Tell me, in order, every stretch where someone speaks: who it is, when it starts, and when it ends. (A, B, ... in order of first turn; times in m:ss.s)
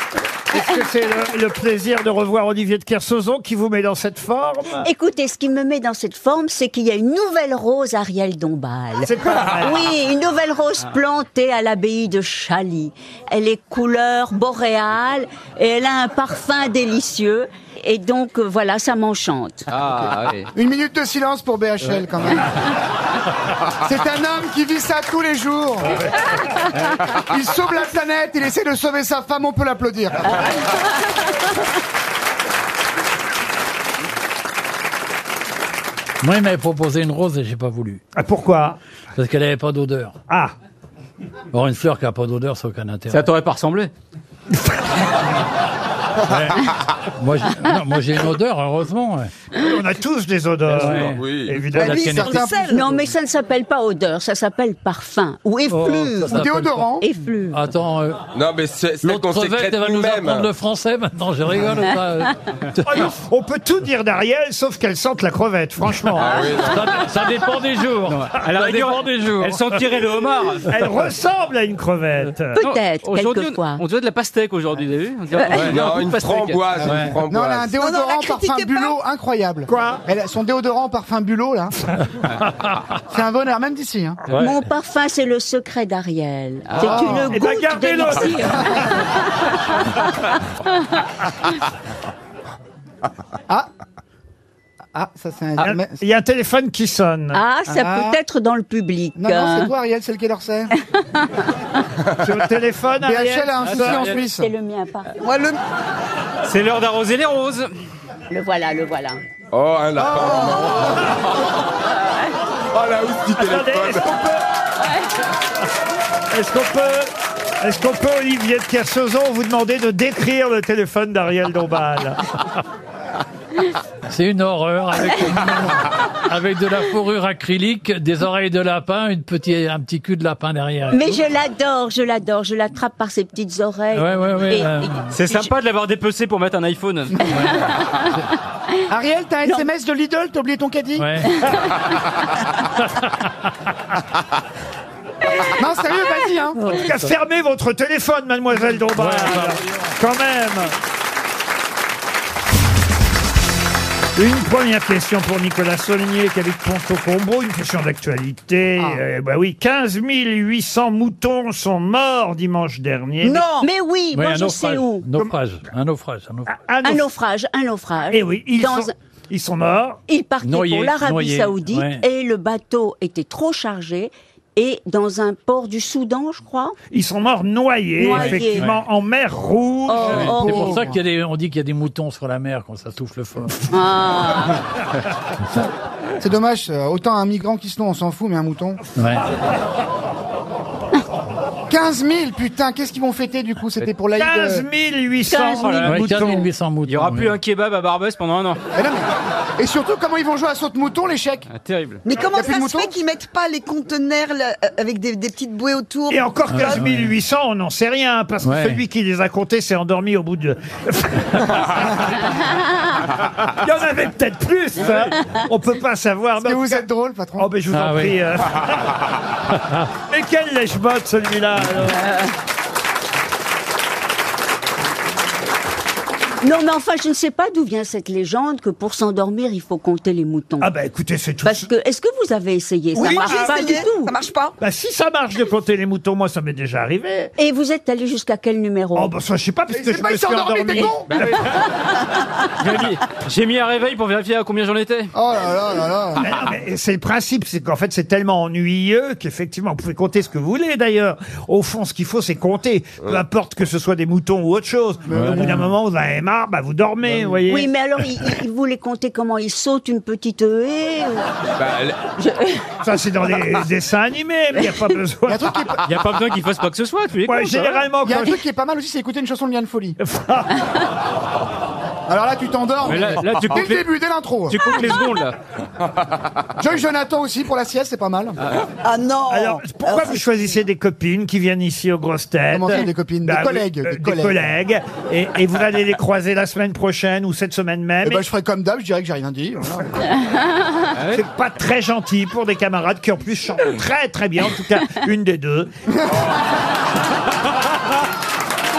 0:00.5-0:04.9 A
0:04.8-0:19.7 B
0:09.1-0:09.8 A
0:19.7-0:20.5 C
0:20.6-0:22.5 D
0:23.8-0:26.0 D
0:27.1-0:30.4 D
0:36.2-0:38.0 E
0:38.2-0:38.8 A
0:39.2-0:40.2 E
0:40.3-0:40.5 A
0:41.5-0:43.2 E
0:43.1-0:43.9 C
0:46.3-0:49.3 E
0:49.6-0:52.2 A
0:50.7-0:52.4 E
0:51.0-0:51.6 F
0:51.7-0:52.9 G
0:51.8-0:52.8 D
0:52.7-0:56.4 B
0:55.7-0:56.9 E
0:56.2-0:57.0 D
0:57.0-0:57.6 B
0:57.5-0:58.3 E
0:58.3-1:00.5 F
0:59.0-1:03.1 E
1:02.9-1:06.4 A
1:06.2-1:07.0 F
1:06.6-1:09.6 E
1:08.1-1:10.7 C
1:10.7-1:12.6 A
1:12.6-1:13.8 B
1:12.6-1:16.6 C
1:15.5-1:15.8 E
1:15.6-1:17.7 F
1:16.8-1:21.7 D
1:16.8-1:17.2 E
1:17.8-1:19.0 G
1:19.7-1:20.0 A
1:22.5-1:22.8 E
1:23.1-1:24.2 D
1:24.3-1:24.6 E
1:24.3-1:30.0 B
1:26.8-1:27.3 D
1:26.8-1:29.0 A
1:34.9-1:36.0 D
1:35.6-1:37.4 A
1:37.3-1:39.7 B
1:37.7-1:38.2 D
1:39.2-1:40.7 D
1:42.2-1:44.1 A
1:43.0-1:44.5 D
1:43.6-1:44.2 C
1:44.1-1:45.1 B
1:45.2-1:45.6 G
1:46.4-1:47.7 C
1:48.3-1:49.2 B
1:49.5-1:51.5 F
1:50.0-1:51.1 D
1:50.3-1:50.6 G
1:52.7-1:54.1 F
1:53.4-1:54.4 A
1:56.3-2:02.2 A
2:04.1-2:11.1 E
2:10.9-2:15.4 B
2:13.9-2:15.1 E
2:15.1-2:17.3 C
2:17.3-2:17.6 E
2:17.4-2:18.0 B
2:18.9-2:21.2 D
2:21.0-2:21.5 E
2:22.6-2:23.5 E
2:25.6-2:26.6 D
2:26.7-2:30.7 A
2:29.0-2:29.9 E
2:34.2-2:43.4 A
2:43.3-2:43.7 G
2:43.6-2:45.1 B
2:44.1-2:46.5 E
2:46.5-2:47.1 A
2:46.8-2:48.9 B
2:48.1-2:50.0 A
2:50.1-2:56.8 B
2:50.4-2:52.0 E
2:56.9-3:00.4 A
2:58.0-2:58.7 B
2:58.1-2:58.8 E
2:59.9-3:00.8 B
3:00.0-3:03.6 E
3:00.4-3:01.0 D
3:03.7-3:04.6 B
3:06.2-3:08.8 D
3:09.0-3:09.2 E
3:11.7-3:14.7 D
3:14.2-3:16.5 A
3:15.3-3:15.8 B
3:15.6-3:16.0 C
3:15.8-3:17.4 E
3:16.9-3:18.6 C
3:18.8-3:21.5 D
3:21.5-3:22.0 C
3:22.0-3:26.8 G
3:22.2-3:23.0 D
3:26.1-3:32.1 A
3:26.5-3:27.1 E
3:28.4-3:28.8 E
3:33.5-3:36.8 A
3:36.4-3:37.5 D
3:37.4-3:39.0 A
3:37.7-3:38.2 E
3:39.5-3:39.9 E
3:40.1-3:42.0 A
3:46.4-3:50.7 B
3:50.6-3:51.7 A
3:51.4-3:54.1 B
3:53.0-3:54.6 G
3:53.0-3:53.6 A
3:54.6-3:57.3 A
3:57.4-3:59.1 B
3:58.9-4:01.5 A
3:59.7-4:01.2 D
4:01.1-4:01.6 C
4:02.6-4:05.1 C
4:05.1-4:06.3 D
4:06.2-4:17.7 A
4:15.1-4:15.6 D
4:15.1-4:15.7 E
4:17.5-4:21.3 B
4:21.6-4:22.0 F
4:22.2-4:22.6 B
4:22.8-4:25.5 A
4:25.3-4:25.8 D
4:25.8-4:27.8 C
4:27.3-4:28.4 A
4:28.0-4:30.0 D
4:30.0-4:30.6 A
4:32.1-4:34.6 D
4:32.8-4:33.9 C
4:34.5-4:35.4 C
4:36.6-4:38.4 D
4:38.8-4:40.2 G
4:39.3-4:48.2 A
4:42.5-4:44.4 D
4:48.0-4:50.0 D
4:51.0-4:51.2 C
4:51.1-4:55.7 A